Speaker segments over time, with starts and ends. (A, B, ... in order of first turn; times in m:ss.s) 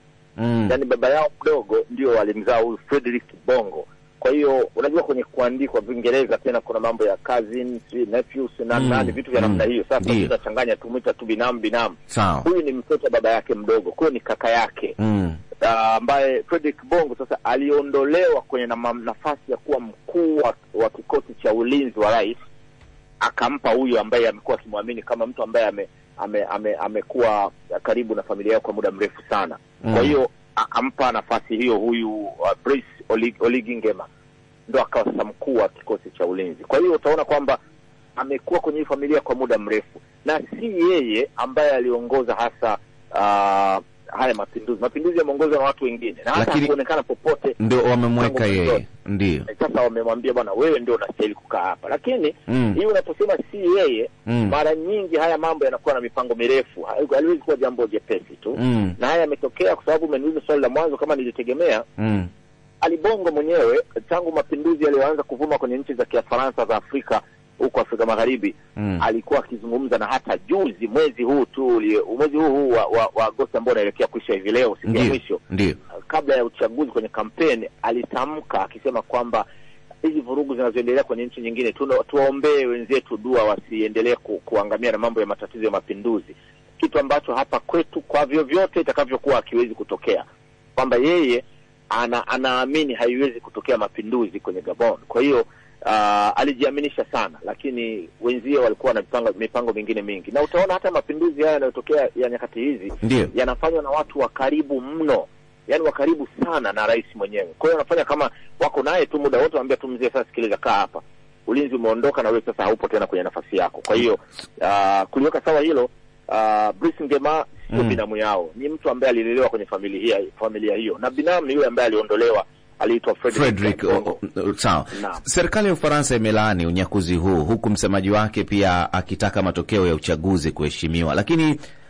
0:00.4-0:00.7 A
0:00.7-0:14.9 B
0:08.7-0:10.3 A
0:12.1-0:12.4 A
0:15.0-0:15.4 A
0:15.6-0:22.3 B
0:23.2-0:34.1 B
0:34.7-0:37.6 B
0:38.2-0:47.6 B
0:46.3-0:46.7 A
0:47.6-0:49.5 A
0:48.2-0:48.8 B
0:49.5-1:01.8 B
0:52.5-0:52.8 A
0:54.3-0:54.5 A
0:58.6-0:59.0 A
1:02.0-1:02.3 A
1:02.8-1:15.4 B
1:14.9-1:15.8 A
1:16.1-1:19.4 B
1:20.0-1:30.2 B
1:30.8-2:04.1 B
1:43.0-1:43.3 A
1:57.7-1:58.0 A
2:03.3-2:11.6 A
2:04.9-2:05.2 B